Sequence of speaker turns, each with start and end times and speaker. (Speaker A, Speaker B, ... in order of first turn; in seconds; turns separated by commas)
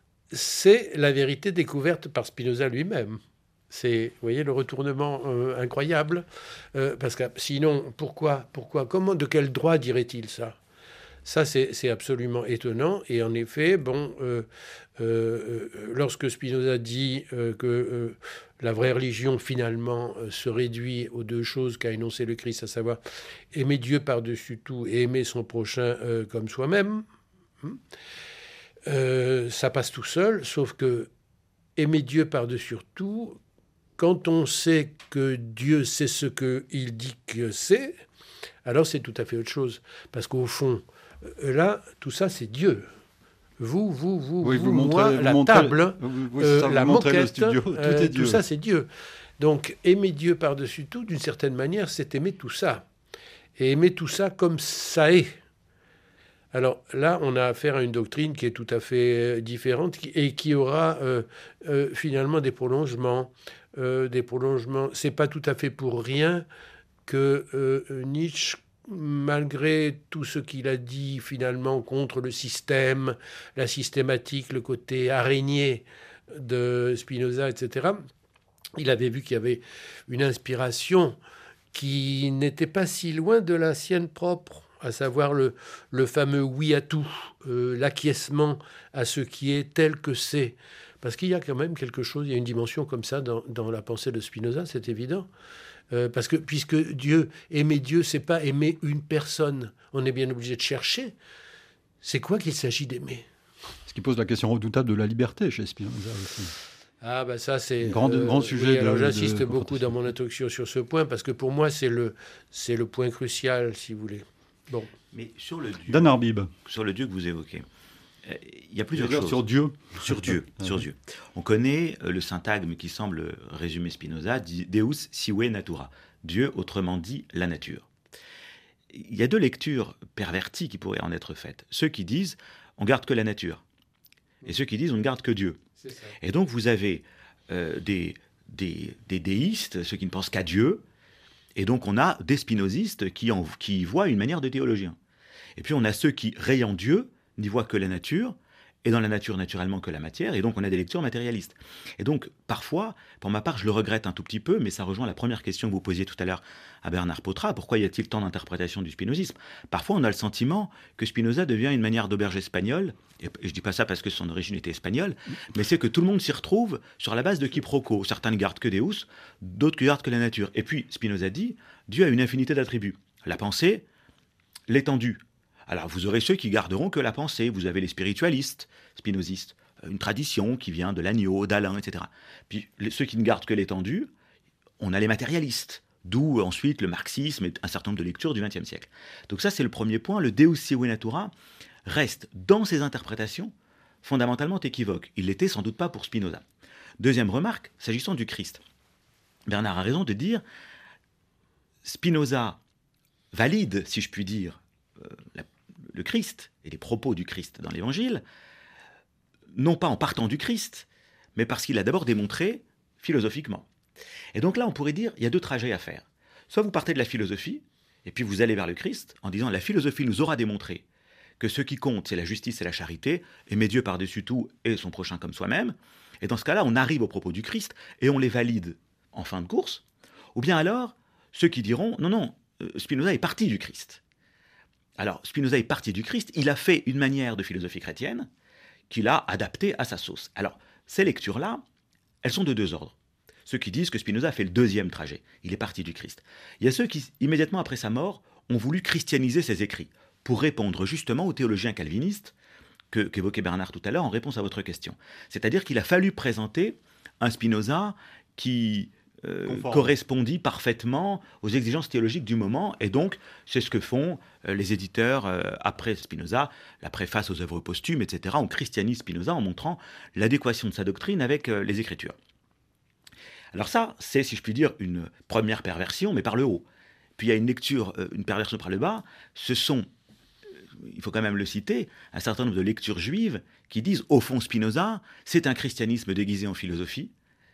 Speaker A: 0.3-10.6, Speaker A: 11.2-14.5, Speaker A: 15.0-23.0, Speaker A: 23.5-27.1, Speaker A: 28.9-31.1, Speaker A: 31.8-33.4, Speaker A: 34.0-38.0, Speaker A: 38.6-42.9, Speaker A: 43.6-48.9, Speaker B: 44.4-48.4, Speaker A: 49.4-52.9, Speaker A: 53.6-55.4, Speaker A: 56.5-66.5, Speaker A: 67.1-78.0, Speaker A: 78.8-81.2, Speaker A: 81.7-95.3, Speaker A: 95.9-101.2, Speaker A: 102.0-103.2, Speaker B: 103.9-106.5, Speaker A: 107.0-114.9, Speaker B: 107.8-109.9, Speaker C: 115.1-116.1, Speaker B: 115.9-116.5, Speaker C: 116.7-117.7, Speaker C: 118.2-119.4, Speaker B: 119.0-120.8, Speaker C: 120.0-127.9, Speaker C: 128.9-133.6, Speaker C: 134.4-135.6, Speaker A: 135.8-136.1, Speaker C: 136.2-140.8, Speaker C: 141.6-145.0, Speaker C: 145.6-173.8, Speaker C: 174.7-184.1, Speaker C: 184.8-191.3, Speaker C: 191.9-196.4, Speaker C: 197.0-198.6, Speaker C: 199.5-200.4, Speaker C: 201.8-202.6, Speaker C: 203.3-208.2, Speaker C: 209.5-213.7, Speaker C: 214.3-220.8, Speaker C: 221.4-229.8, Speaker C: 230.3-234.0, Speaker C: 235.0-238.3, Speaker C: 238.9-241.6, Speaker C: 242.2-242.9, Speaker C: 243.5-252.3, Speaker C: 252.9-272.1, Speaker B: 259.5-259.9, Speaker C: 273.5-276.6, Speaker C: 277.2-279.9, Speaker C: 280.8-287.1